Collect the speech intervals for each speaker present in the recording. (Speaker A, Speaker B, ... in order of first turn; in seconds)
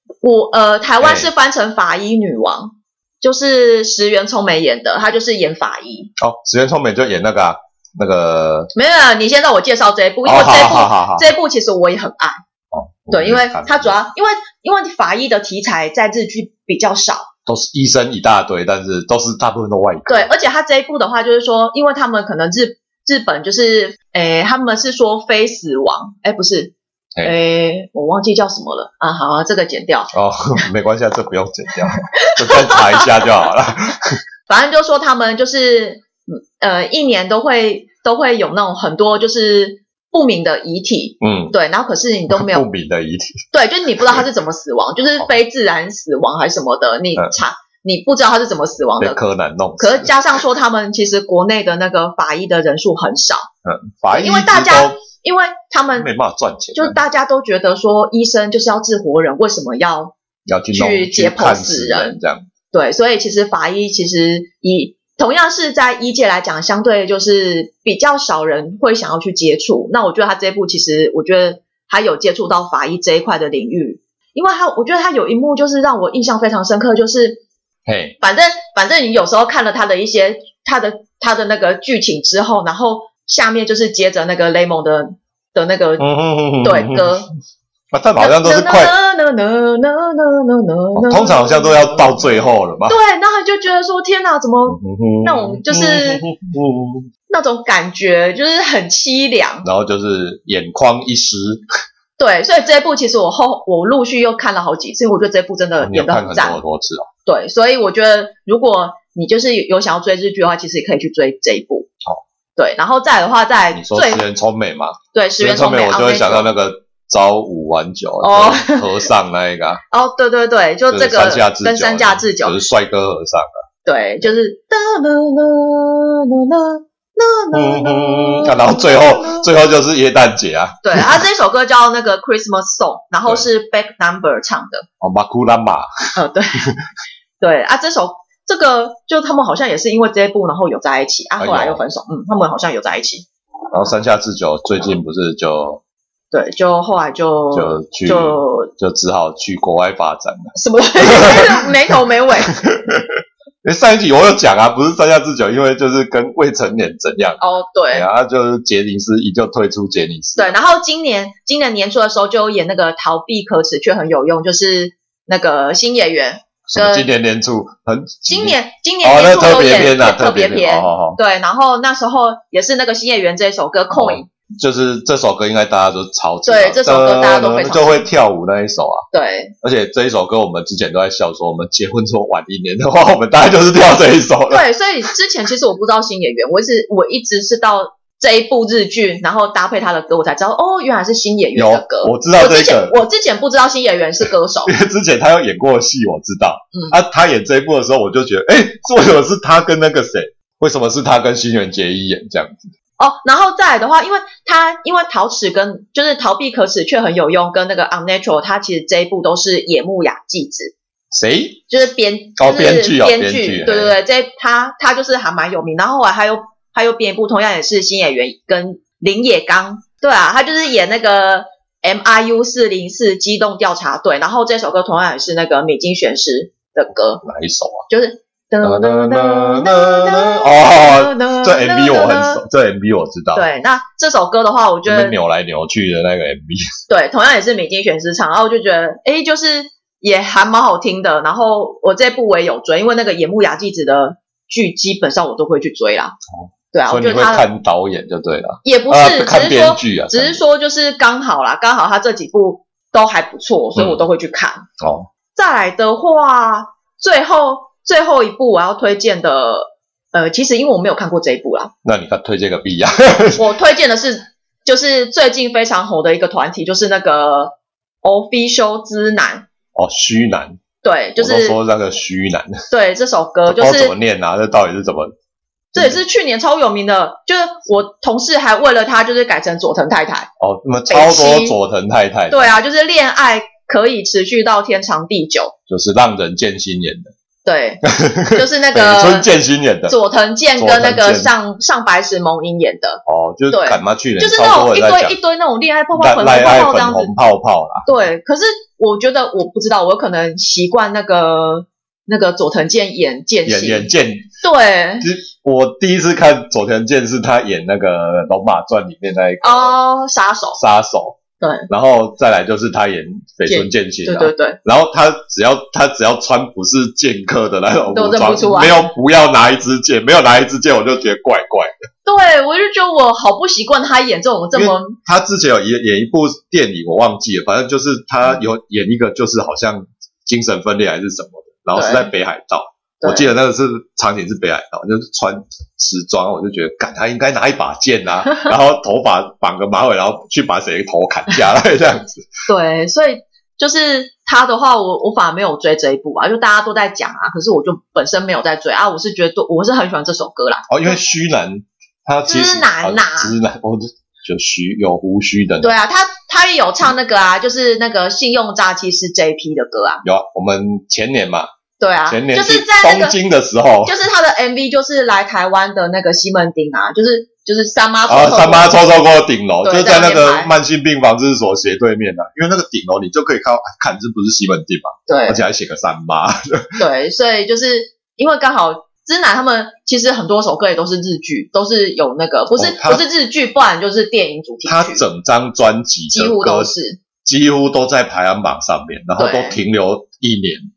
Speaker A: 0.2-6.1, 8.7-12.4, 13.1-17.3, 20.1-30.1, 32.0-33.3, 34.5-42.7, 43.5-49.2, 49.8-53.5, 54.1-56.1, 56.7-60.1, 60.7-62.2, 62.7-77.4, 78.2-86.1, 86.6-87.3, 88.2-96.2, 97.3-99.7, 102.2-106.6, 107.3-111.9, 112.6-114.2, 115.1-116.5, 118.2-119.1, 119.9-122.6, 123.8-129.5, 130.8-134.9, 136.2-136.7, 137.4-143.3, 146.3-148.7, 150.6-152.6, 157.4-158.1, 160.4-167.1, 168.3-174.3, 176.4-178.1, 179.1-179.6, 184.5-194.8, 203.0-210.7, 211.7-227.2, 227.9-232.4, 233.3-235.2, 236.9-246.2, 246.7-247.5, 248.6-254.7, 255.3-261.7, 263.4-269.5, 270.8-271.6, 272.7-273.9, 275.8-280.3, 280.9-281.5, 282.3-285.6, 287.4-289.3, 289.9-297.1, 297.9-305.1, 309.4-310.6, 311.4-311.7, 313.5-314.6, 317.9-318.8, 322.1-325.0, 331.8-332.1, 333.0-333.3, 342.5-351.0, 352.3-353.4, 355.6-360.0, 361.8-363.1, 363.9-368.8, 369.6-370.5, 375.1-375.4, 376.8-385.0, 386.1-387.0, 389.2-389.6
Speaker B: 1.0-1.3, 6.2-8.7, 10.2-11.3, 12.7-14.0, 17.5-20.3, 30.1-34.2, 41.2-41.5, 42.3-43.4, 49.0-50.2, 53.6-55.0, 55.9-57.0, 60.5-62.5, 77.9-78.2, 86.0-87.2, 87.9-88.9, 91.0-93.0, 94.7-97.1, 99.6-101.6, 105.8-107.1, 113.7-119.8, 120.9-123.6, 127.5-131.2, 135.0-135.9, 141.4-141.8, 143.7-145.8, 147.5-160.5, 166.7-171.2, 173.9-179.1, 179.6-184.7, 191.6-193.0, 194.7-202.7, 211.1-211.7, 212.4-214.0, 227.2-227.9, 228.6-233.4, 234.8-236.6, 246.3-250.4, 253.8-254.0, 254.8-255.1, 261.8-263.4, 269.8-270.6, 271.2-272.6, 273.5-275.1, 280.4-282.5, 285.7-287.1, 287.8-290.0, 290.6-291.3, 293.1-295.2, 295.9-297.9, 303.5-304.3, 305.0-309.8, 310.6-321.8, 324.5-342.2, 350.7-355.8, 360.0-361.5, 362.1-364.0, 368.1-376.8, 382.6-383.0, 384.6-386.7, 387.2-390.7